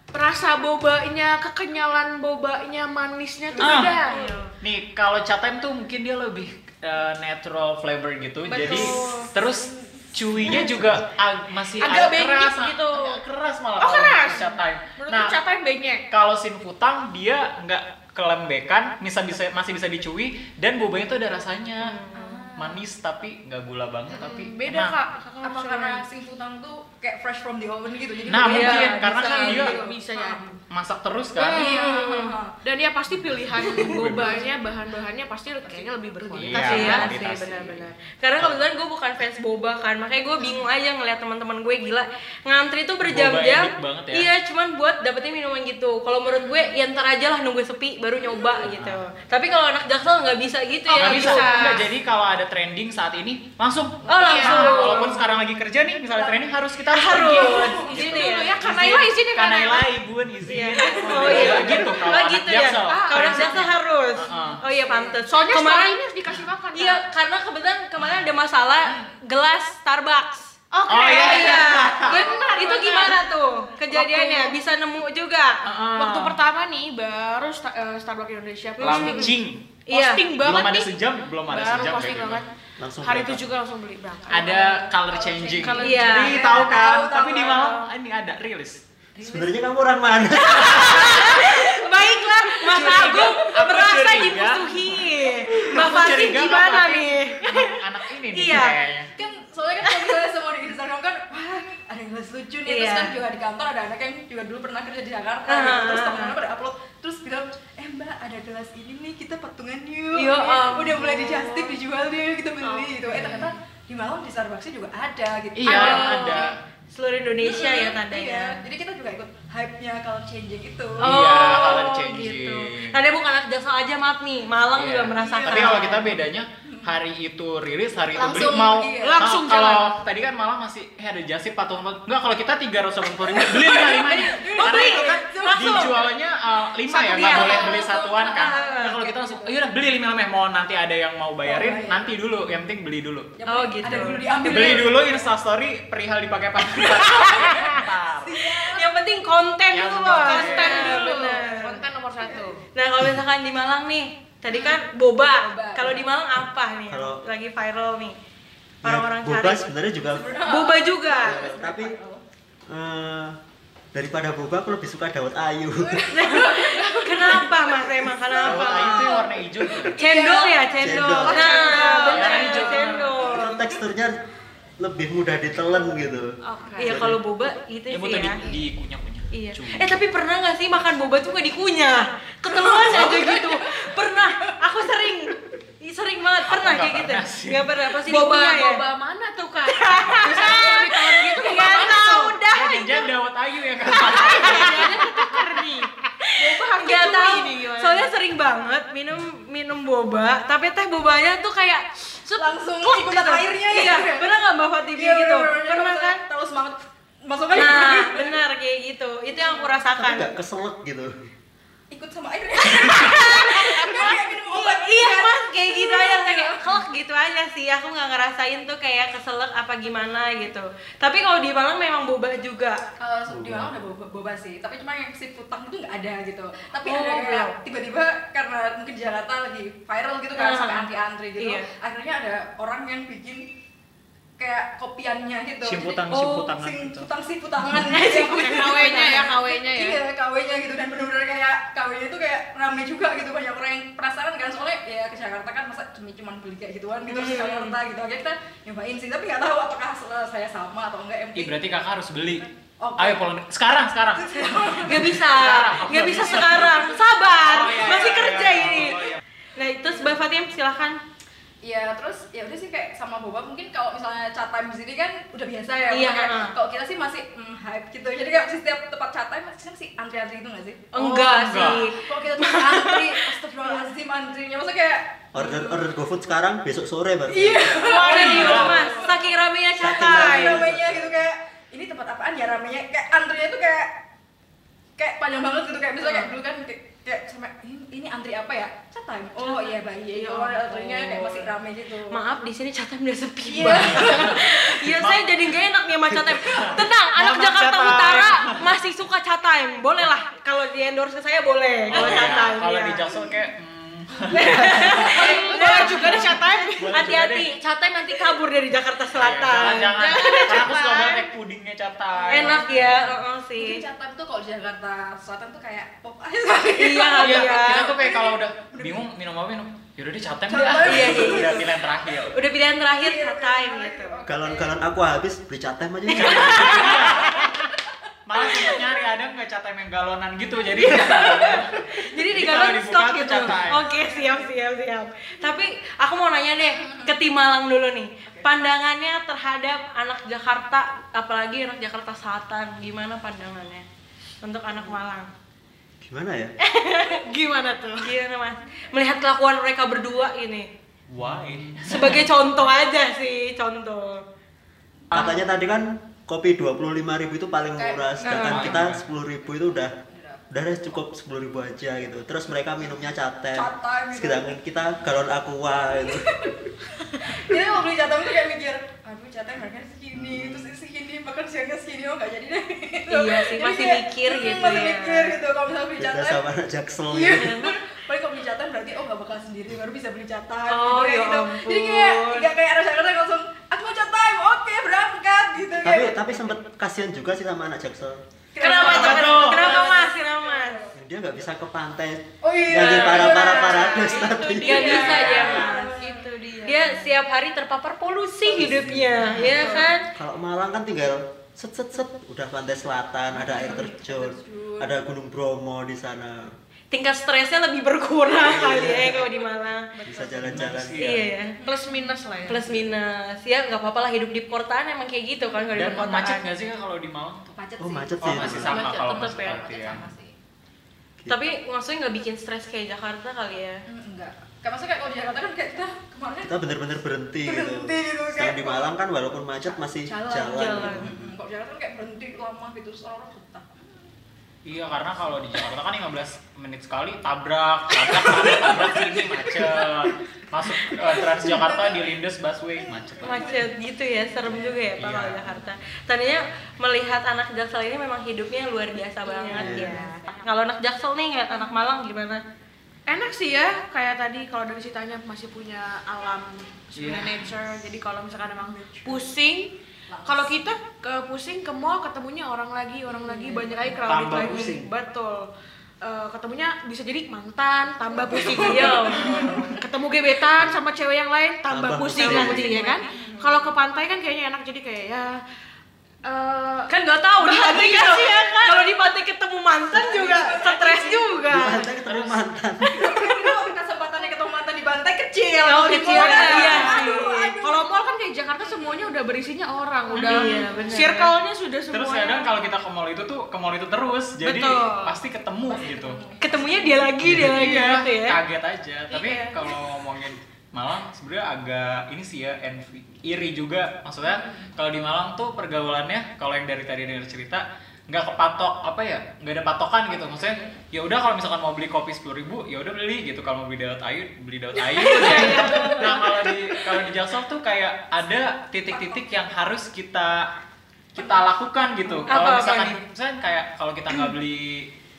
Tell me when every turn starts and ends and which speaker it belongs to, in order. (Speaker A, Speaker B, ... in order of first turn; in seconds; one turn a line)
Speaker A: 0.1-4.3
Speaker B: 3.5-4.3
Speaker C: 3.6-4.0
Speaker D: 4.0-4.5
Speaker C: 4.6-15.4
Speaker A: 8.5-9.3
Speaker B: 8.5-10.7
Speaker A: 10.4-10.7
Speaker A: 11.8-13.2
Speaker A: 13.8-16.0
Speaker C: 16.1-22.0
Speaker D: 21.8-22.5
Speaker B: 22.1-22.8
Speaker C: 22.6-25.0
Speaker A: 24.1-26.1
Speaker B: 25.4-30.5
Speaker C: 28.3-29.8
Speaker D: 28.4-29.6
Speaker A: 28.6-30.6
Speaker C: 30.7-31.7
Speaker A: 31.4-37.2
Speaker B: 31.5-32.6
Speaker D: 31.6-32.3
Speaker C: 33.1-34.4
Speaker B: 33.9-34.6
Speaker B: 35.6-36.9
Speaker C: 36.3-37.9
Speaker D: 36.5-51.8
Speaker C: 43.0-44.3
Speaker B: 48.2-48.7
Speaker C: 48.7-49.0
Speaker A: 50.9-51.9
Speaker C: 51.0-64.6
Speaker D: 54.1-55.2
Speaker A: 54.2-55.2
Speaker B: 54.5-55.1
Speaker D: 56.9-58.6
Speaker A: 57.1-59.9
Speaker B: 57.3-57.8
Speaker D: 60.5-66.0
Speaker A: 60.8-62.0
Speaker B: 60.9-61.9
Speaker A: 62.7-63.7
Speaker B: 64.3-65.2
Speaker A: 65.2-67.0
Speaker D: 66.7-75.6
Speaker A: 70.7-74.6
Speaker C: 70.9-72.4
Speaker B: 71.3-72.7
Speaker C: 75.6-76.4
Speaker A: 76.0-79.4
Speaker D: 78.8-79.3
Speaker C: 78.8-79.6
Speaker D: 79.9-80.3
Speaker A: 79.9-80.9
Speaker C: 80.4-82.4
Speaker A: 81.5-82.5
Speaker E: 82.8-83.5
Speaker A: 83.0-84.7
Speaker C: 84.3-88.8
Speaker B: 84.3-87.9
Speaker A: 85.5-86.4
Speaker D: 85.8-86.5
Speaker B: 89.2-89.5
Speaker E: 89.2-91.2
Speaker D: 90.5-98.8
Speaker C: 92.7-99.1
Speaker B: 92.8-93.3
Speaker B: 99.2-116.5
Speaker D: 99.9-100.2
Speaker D: 102.7-103.2
Speaker D: 105.5-106.4
Speaker D: 110.2-111.8
Speaker A: 112.6-112.9
Speaker C: 115.6-116.6
Speaker D: 115.7-118.6
Speaker B: 117.4-121.1
Speaker C: 121.0-123.0
Speaker D: 121.0-126.1
Speaker C: 124.8-143.3
Speaker B: 125.2-126.9
Speaker B: 128.2-129.3
Speaker A: 129.0-129.9
Speaker B: 133.3-136.1
Speaker D: 134.5-136.0
Speaker B: 136.9-139.6
Speaker D: 137.1-139.0
Speaker B: 141.4-142.1
Speaker B: 143.4-145.3
Speaker D: 143.5-144.8
Speaker C: 144.4-148.5
Speaker B: 147.3-148.9
Speaker D: 147.3-147.7
Speaker D: 148.7-151.8
Speaker C: 149.7-151.1
Speaker A: 150.1-152.6
Speaker B: 150.5-151.3
Speaker B: 152.2-152.6
Speaker D: 152.8-158.2
Speaker B: 154.5-154.8
Speaker B: 155.4-156.1
Speaker E: 156.9-157.2
Speaker D: 158.8-159.7
Speaker E: 158.8-160.4
Speaker B: 160.1-162.2
Speaker D: 160.4-161.4
Speaker E: 161.2-162.0
Speaker E: 162.7-163.4
Speaker E: 163.9-166.1
Speaker B: 165.8-173.8
Speaker D: 166.1-169.2
Speaker C: 168.4-170.0
Speaker D: 169.9-173.6
Speaker E: 170.8-171.5
Speaker A: 171.0-172.7
Speaker C: 171.9-173.2
Speaker E: 173.3-174.2
Speaker E: 174.8-177.2
Speaker A: 176.4-177.0
Speaker D: 176.8-178.4
Speaker C: 177.9-180.0
Speaker D: 179.3-188.8
Speaker B: 182.5-184.5
Speaker C: 186.5-187.8
Speaker A: 188.0-192.4
Speaker D: 189.7-193.1
Speaker C: 192.5-195.0
Speaker D: 193.9-195.3
Speaker A: 194.0-198.1
Speaker D: 196.2-206.2
Speaker B: 202.4-204.3
Speaker B: 204.9-208.4
Speaker D: 207.6-210.3
Speaker B: 209.3-209.8
Speaker E: 210.0-211.1
Speaker B: 211.9-216.7
Speaker D: 212.7-222.8
Speaker B: 223.0-233.5
Speaker E: 223.3-223.7
Speaker D: 226.8-227.6
Speaker D: 230.4-231.7
Speaker B: 234.4-251.6
Speaker C: 235.6-237.1
Speaker A: 237.8-240.0
Speaker D: 247.1-247.8
Speaker C: 251.3-256.9
Speaker B: 252.8-253.3
Speaker B: 254.2-255.2
Speaker D: 254.8-261.0
Speaker B: 256.1-257.0
Speaker C: 257.4-259.2
Speaker B: 257.8-258.2
Speaker B: 259.9-260.2
Speaker B: 261.6-275.9
Speaker D: 265.9-266.6
Speaker D: 270.9-273.3
Speaker C: 271.2-271.9
Speaker E: 275.3-278.0
Speaker B: 277.3-283.9
Speaker D: 277.8-280.7
Speaker C: 277.8-278.9
Speaker E: 279.8-281.2
Speaker B: 285.0-292.2
Speaker D: 286.0-286.3
Speaker A: 289.4-291.5
Speaker D: 292.1-303.1
Speaker B: 293.4-294.5
Speaker C: 293.7-295.4
Speaker C: 296.1-298.7
Speaker C: 301.9-307.5
Speaker B: 304.3-306.2
Speaker D: 304.3-310.1
Speaker A: 305.1-307.0
Speaker C: 309.1-312.7
Speaker A: 310.0-311.3
Speaker B: 312.1-319.1
Speaker D: 312.3-313.8
Speaker D: 316.8-317.9
Speaker C: 317.2-322.3
Speaker B: 320.5-321.8
Speaker D: 320.8-321.7
Speaker D: 322.3-324.2
Speaker B: 322.9-324.8
Speaker E: 324.3-327.0
Speaker D: 326.1-327.0
Speaker C: 326.2-327.7
Speaker B: 326.3-327.5
Speaker C: 328.3-333.9
Speaker D: 328.4-328.8
Speaker D: 330.8-343.9
Speaker B: 333.7-334.5
Speaker B: 336.6-337.2
Speaker D: 344.4-345.3
Speaker E: 346.0-346.5
Speaker D: 346.6-347.2
Speaker A: 347.1-348.1
Speaker D: 348.0-350.7
Speaker C: 351.1-352.2
Speaker D: 351.8-354.2
Speaker E: 355.1-359.9
Speaker B: 355.1-355.4
Speaker B: 357.8-358.9
Speaker D: 358.2-358.7
Speaker C: 358.4-359.0
Speaker B: 359.6-360.4
Speaker E: 360.5-366.5
Speaker B: 363.5-364.5
Speaker B: 366.0-366.6
Speaker B: 367.1-376.4
Speaker E: 370.1-370.8
Speaker D: 373.1-375.4
Speaker E: 376.0-377.6
Speaker B: 377.1-386.5
Speaker D: 377.3-377.8
Speaker D: 380.7-382.5
Speaker E: 385.8-388.2
Speaker B: 388.5-390.9
Speaker D: 388.6-390.8
Speaker C: 388.6-389.8
Speaker E: 390.9-395.7
Speaker B: 392.4-397.1
Speaker D: 392.7-400.1
Speaker B: 398.4-399.9
Speaker E: 398.5-399.5
Speaker A: 399.6-399.9
Speaker E: 400.1-406.6
Speaker B: 403.4-404.9
Speaker D: 403.6-403.9
Speaker D: 406.9-409.9
Speaker E: 408.4-409.3
Speaker B: 410.0-410.5
Speaker E: 410.0-411.1
Speaker C: 410.4-411.3
Speaker D: 411.0-411.6
Speaker B: 411.6-412.1
Speaker A: 411.6-412.8
Speaker D: 412.5-416.4
Speaker C: 415.7-417.5
Speaker B: 417.5-420.3
Speaker E: 417.8-418.8
Speaker C: 418.2-420.1
Speaker D: 418.6-419.7
Speaker D: 421.3-423.8
Speaker B: 423.9-426.6
Speaker E: 426.5-431.4
Speaker B: 427.4-429.0
Speaker B: 429.6-434.1
Speaker D: 430.5-431.1
Speaker C: 434.6-443.6
Speaker B: 438.2-442.1
Speaker B: 442.8-443.7
Speaker D: 443.2-452.4
Speaker B: 444.4-444.8
Speaker C: 445.0-445.5
Speaker A: 449.3-450.1
Speaker E: 449.5-450.0
Speaker B: 449.5-450.4
Speaker A: 453.1-459.7
Speaker C: 457.0-457.4
Speaker B: 460.1-460.6
Speaker A: 460.2-465.5
Speaker B: 463.1-464.7
Speaker C: 464.1-464.9
Speaker E: 464.1-464.8
Speaker A: 466.0-475.4
Speaker B: 468.1-469.8
Speaker D: 468.5-469.7
Speaker E: 471.7-472.7
Speaker D: 472.1-473.0
Speaker B: 473.1-473.6
Speaker A: 476.2-479.0
Speaker D: 476.9-481.9
Speaker B: 479.9-481.4
Speaker A: 479.9-481.1
Speaker E: 481.5-483.0
Speaker C: 482.1-482.4
Speaker B: 482.9-487.9
Speaker D: 485.6-487.6
Speaker A: 485.9-492.5
Speaker B: 488.6-489.2
Speaker D: 490.1-491.3
Speaker C: 490.2-490.5
Speaker C: 491.9-496.2
Speaker A: 494.4-495.2
Speaker B: 495.7-497.2
Speaker D: 496.4-498.4
Speaker C: 497.2-520.5
Speaker E: 497.2-497.6
Speaker A: 499.1-499.8
Speaker B: 504.2-504.7
Speaker B: 510.4-510.7
Speaker D: 515.0-516.3
Speaker A: 515.0-516.2
Speaker B: 515.0-516.5
Speaker B: 518.9-519.3
Speaker C: 521.1-524.9
Speaker B: 521.1-522.4
Speaker D: 522.3-523.0